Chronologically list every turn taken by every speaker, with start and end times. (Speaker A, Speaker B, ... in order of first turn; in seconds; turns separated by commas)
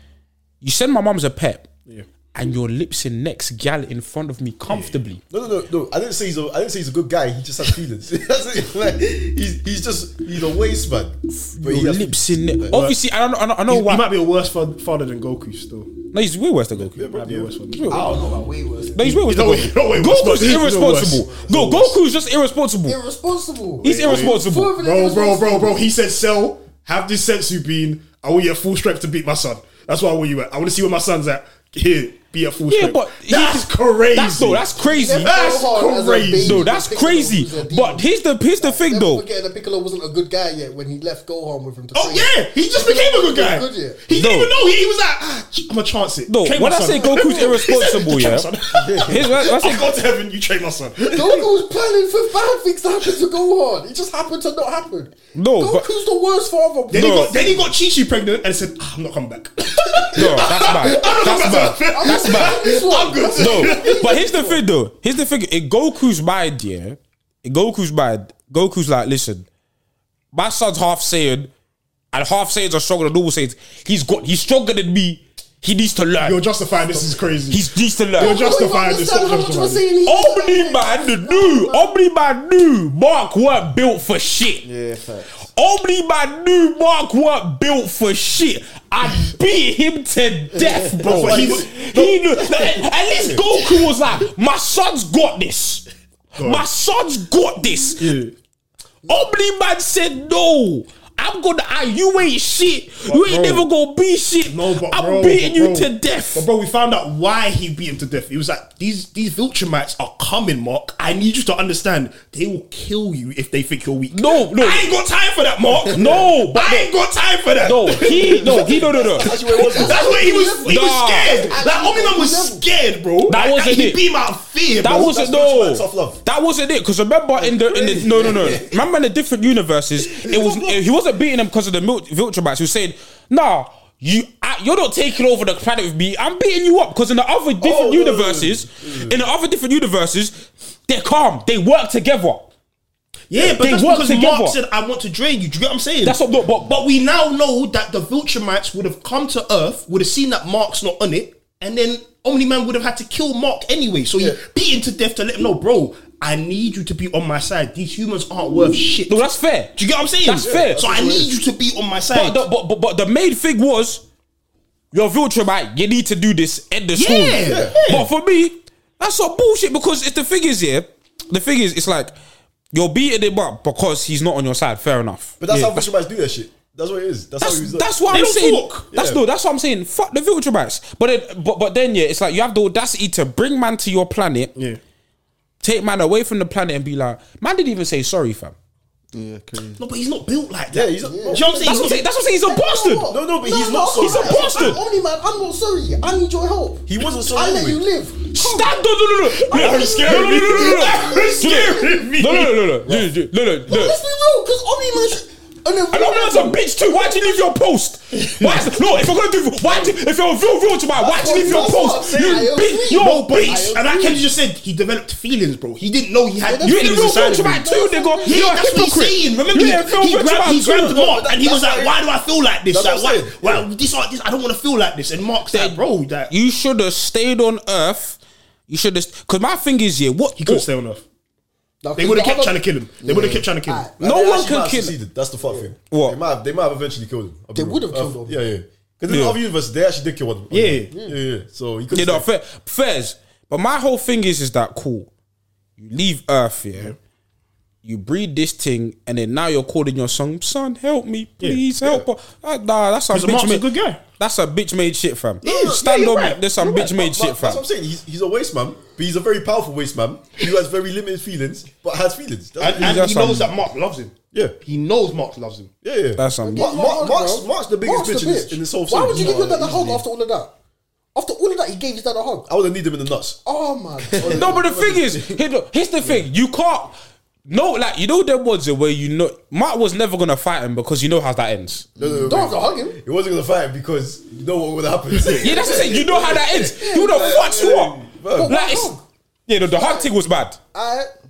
Speaker A: 0.6-1.7, Speaker A: 2.3-5.2, Speaker B: 4.7-5.0, Speaker C: 5.3-12.8, Speaker A: 11.3-14.1, Speaker B: 12.7-13.0, Speaker B: 13.7-16.0, Speaker A: 16.1-17.1, Speaker C: 16.9-17.5, Speaker B: 17.0-18.0, Speaker A: 17.7-18.1, Speaker D: 17.9-19.1, Speaker A: 18.9-23.0, Speaker B: 19.0-22.0, Speaker D: 21.2-21.9, Speaker D: 22.8-25.8, Speaker B: 23.8-36.7, Speaker A: 23.8-24.7, Speaker A: 32.6-35.3, Speaker D: 34.8-44.0, Speaker A: 36.4-39.2, Speaker B: 41.9-51.5, Speaker A: 44.1-44.5, Speaker A: 46.3-49.9, Speaker D: 46.9-47.8, Speaker D: 51.1-57.6, Speaker A: 55.3-55.9, Speaker B: 56.9-64.1, Speaker A: 56.9-57.4, Speaker A: 60.1-62.6, Speaker D: 60.2-64.6, Speaker A: 63.4-69.5, Speaker A: 70.3-71.5, Speaker A: 72.1-76.4, Speaker B: 76.2-79.8, Speaker A: 77.5-78.4, Speaker D: 78.2-81.9, Speaker A: 80.0-84.7, Speaker E: 84.6-85.5, Speaker A: 85.5-98.1, Speaker B: 91.0-91.7, Speaker C: 91.0-93.6, Speaker B: 96.3-96.7, Speaker B: 98.0-98.3, Speaker A: 99.1-106.5, Speaker B: 103.0-103.7, Speaker B: 104.4-118.7, Speaker A: 114.1-114.9, Speaker A: 115.9-116.9, Speaker A: 117.6-119.3, Speaker C: 117.9-120.2, Speaker B: 119.5-125.1, Speaker D: 119.6-122.6, Speaker A: 120.6-121.5, Speaker A: 123.3-124.0, Speaker A: 124.8-142.5, Speaker C: 124.8-126.2, Speaker C: 127.4-128.8, Speaker C: 130.0-130.8, Speaker C: 137.6-139.2, Speaker B: 143.3-159.2, Speaker A: 143.4-144.6, Speaker A: 146.0-146.8, Speaker A: 159.1-160.9, Speaker B: 159.7-162.4, Speaker C: 160.4-161.3, Speaker A: 162.1-164.0, Speaker A: 164.9-172.1, Speaker B: 166.9-168.1, Speaker C: 167.4-167.8, Speaker A: 172.7-175.8, Speaker C: 175.4-177.9, Speaker A: 177.4-184.5, Speaker B: 178.1-178.8, Speaker C: 178.9-179.2, Speaker B: 184.5-184.8, Speaker A: 185.6-188.5, Speaker E: 189.1-189.8, Speaker B: 189.8-192.0, Speaker C: 190.7-191.8, Speaker D: 191.0-191.6, Speaker A: 191.5-193.1, Speaker D: 192.4-198.8, Speaker C: 193.1-194.8, Speaker A: 193.9-194.8, Speaker C: 196.9-197.8, Speaker A: 198.2-204.0, Speaker D: 199.3-202.2, Speaker B: 199.5-202.6, Speaker C: 202.8-203.1, Speaker D: 203.7-207.3, Speaker A: 205.9-213.7, Speaker D: 209.7-210.0, Speaker D: 211.0-214.3, Speaker B: 211.4-211.7, Speaker B: 212.9-217.6, Speaker D: 216.4-218.5, Speaker A: 216.6-221.2, Speaker B: 218.2-226.3, Speaker C: 220.9-221.9, Speaker C: 222.7-223.7, Speaker A: 225.5-230.7, Speaker B: 230.4-231.0, Speaker D: 231.8-232.6, Speaker B: 232.0-233.9, Speaker E: 233.0-233.5, Speaker D: 233.6-233.9, Speaker C: 234.0-242.2, Speaker A: 234.0-234.9, Speaker D: 235.4-235.7, Speaker A: 235.9-236.2, Speaker D: 237.5-238.4, Speaker A: 239.1-239.4, Speaker B: 240.5-240.9, Speaker D: 240.9-241.2, Speaker A: 241.9-245.1, Speaker A: 245.8-246.9, Speaker A: 247.8-253.7, Speaker C: 251.8-252.1, Speaker B: 253.1-254.0, Speaker A: 254.2-257.6, Speaker C: 255.4-263.4, Speaker B: 255.4-255.9, Speaker B: 262.6-265.7, Speaker A: 262.7-263.5, Speaker C: 265.8-270.0, Speaker A: 266.2-266.7, Speaker D: 266.4-270.5, Speaker B: 269.1-269.4, Speaker D: 271.1-272.5, Speaker C: 272.5-273.4, Speaker D: 273.4-274.6, Speaker C: 274.1-275.4, Speaker A: 274.3-276.9, Speaker A: 277.5-281.9, Speaker C: 282.0-288.6, Speaker D: 282.1-283.0, Speaker D: 285.3-286.0, Speaker A: 285.4-288.9, Speaker D: 286.7-287.4, Speaker D: 288.3-289.0, Speaker A: 289.5-290.6, Speaker D: 289.7-290.1, Speaker D: 290.7-291.1